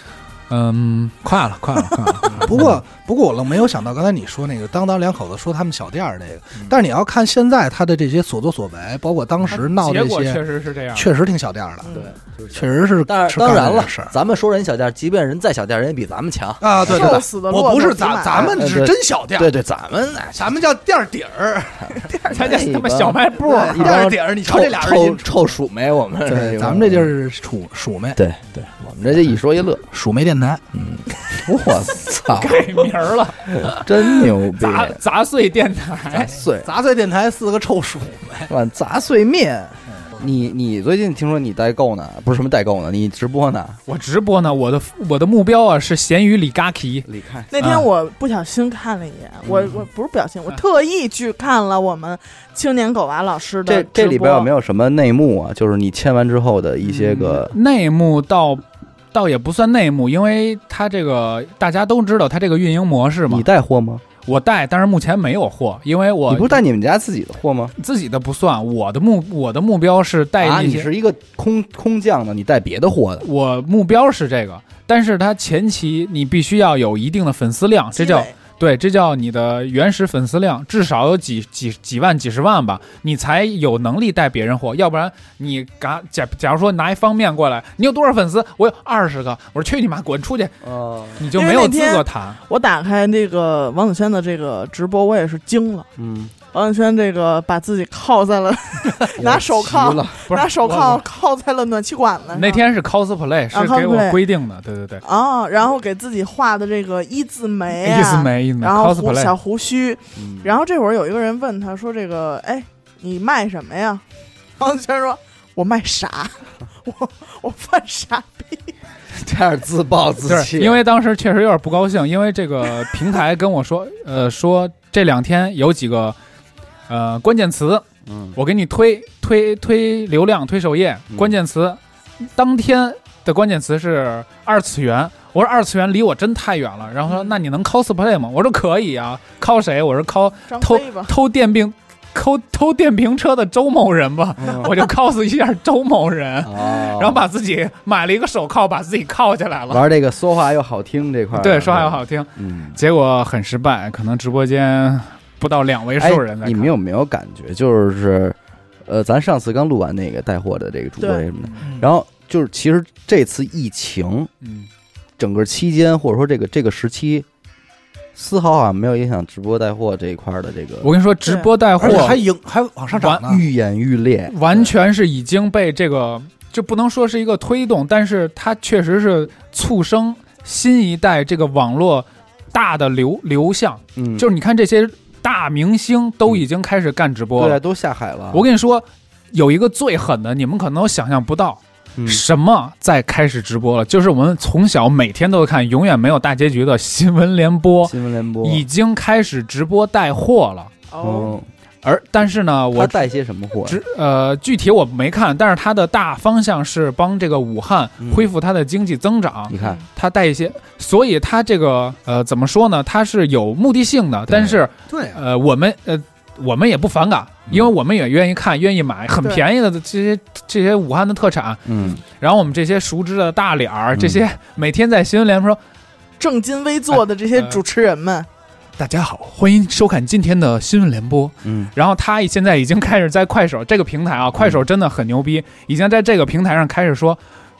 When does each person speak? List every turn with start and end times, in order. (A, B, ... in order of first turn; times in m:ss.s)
0:00.5-0:02.4 A
0:02.2-0:02.8 B
0:02.3-0:10.4 C
0:09.5-0:11.1 A
0:10.9-0:11.9 C
0:11.8-0:12.1 D
0:11.9-0:17.2 B
0:12.5-0:14.1 C
0:16.6-0:19.5 C
0:16.8-0:18.6 D
0:18.3-0:20.5 B
0:20.3-0:22.1 C
0:22.2-0:27.1 B
0:22.2-0:24.0 A
0:23.5-0:25.5 C
0:26.2-0:28.2 C
0:28.2-0:29.8 B
0:29.9-0:30.6 C
0:30.7-0:32.8 B
0:32.3-0:36.3 A
0:33.5-0:35.0 B
0:36.1-0:36.7 B
0:36.6-0:38.5 C
0:38.5-0:43.8 B
0:43.9-0:47.1 A
0:47.0-0:47.5 B
0:47.5-0:54.5 D
0:47.6-0:47.9 A
0:49.4-0:49.8 B
0:53.6-0:57.5 B
0:56.8-1:03.4 A
1:03.3-1:04.0 B
1:04.2-1:06.6 A
1:06.3-1:07.7 B
1:07.8-1:10.9 A
1:10.4-1:13.2 B
1:13.2-1:30.6 A
1:17.9-1:18.3 D
1:30.6-1:31.2 B
1:31.2-1:32.4 A
1:31.3-1:35.9 D
1:36.0-1:36.3 B
1:36.5-1:42.6 D
1:39.1-1:40.3 B
1:40.3-1:41.0 A
1:42.3-1:45.0 A
1:43.5-1:44.2 D
1:45.0-1:54.0 D
1:47.8-1:49.3 A
1:50.2-1:50.6 B
1:54.6-1:58.7 D
1:59.1-2:00.8 B
2:00.2-2:06.2 A
2:06.9-2:11.8 A
2:08.0-2:08.4 B
2:12.3-2:29.8 A
2:20.5-2:21.1 D
2:24.4-2:24.7 B
2:26.4-2:27.2 B
2:29.7-2:32.8 B
2:31.3-2:36.7 A
2:36.0-2:44.3 B
2:41.0-2:41.3 D
2:41.6-2:41.9 C
2:44.4-2:44.7 A
2:45.2-2:47.3 B
2:48.1-2:50.9 B
2:50.8-2:52.2 A
2:51.2-2:51.5 D
2:51.8-2:53.4 C
2:51.8-2:52.1 B
2:53.0-2:53.3 A
2:53.2-2:54.7 B
2:54.3-3:07.6 A
3:04.0-3:04.2 B
3:07.4-3:08.4 B
3:08.3-3:20.7 A
3:12.0-3:12.2 B
3:17.8-3:18.6 B
3:20.9-3:21.3 D
3:21.0-3:21.5 B
3:21.8-3:23.0 A
3:22.7-3:23.8 B
3:23.6-3:45.6 A
3:28.0-3:28.3 B
3:29.5-3:29.8 B
3:29.6-3:29.8 D
3:34.3-3:34.6 B
3:34.9-3:35.2 C
3:41.6-3:42.0 B
3:43.9-3:44.2 B
3:46.2-3:48.3 D
3:46.9-3:47.6 A
3:48.8-3:57.2 A
3:51.4-3:51.7 B